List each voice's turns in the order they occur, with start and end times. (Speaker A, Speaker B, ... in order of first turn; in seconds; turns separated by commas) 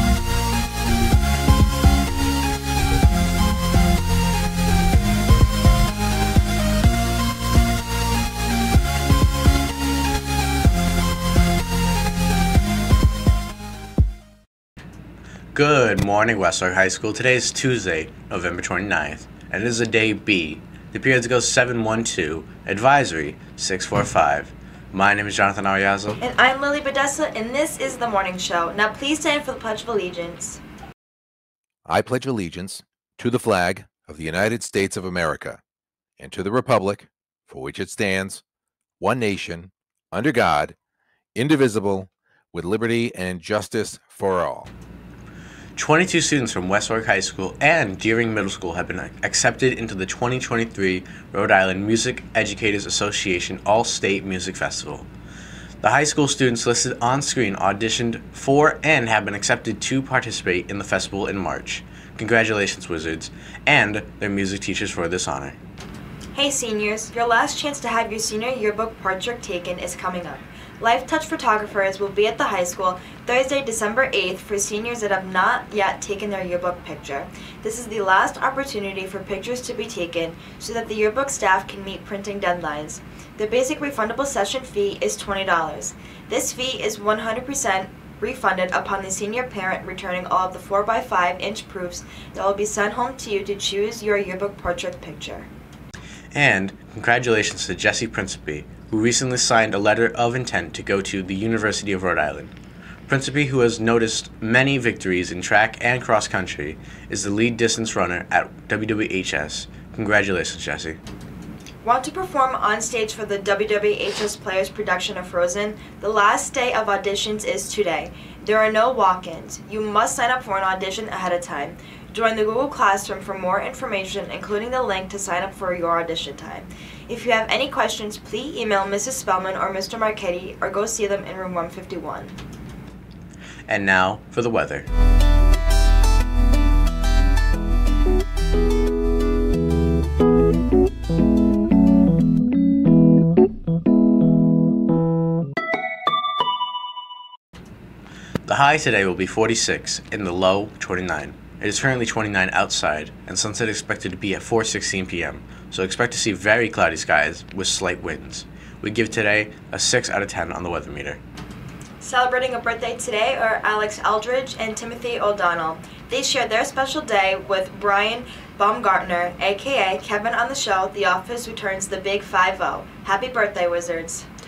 Speaker A: 15.5-26.2, Speaker B: 26.2-30.6, Speaker C: 31.9-35.6, Speaker C: 36.2-38.4, Speaker C: 39.0-40.8, Speaker C: 41.4-44.7, Speaker A: 45.8-55.1, Speaker A: 55.8-65.6, Speaker B: 66.3-95.5, Speaker A: 96.3-102.5, Speaker A: 103.1-111.0, Speaker B: 111.8-132.3, Speaker A: 133.7-134.9, Speaker A: 148.5-161.2, Speaker B: 162.0-174.3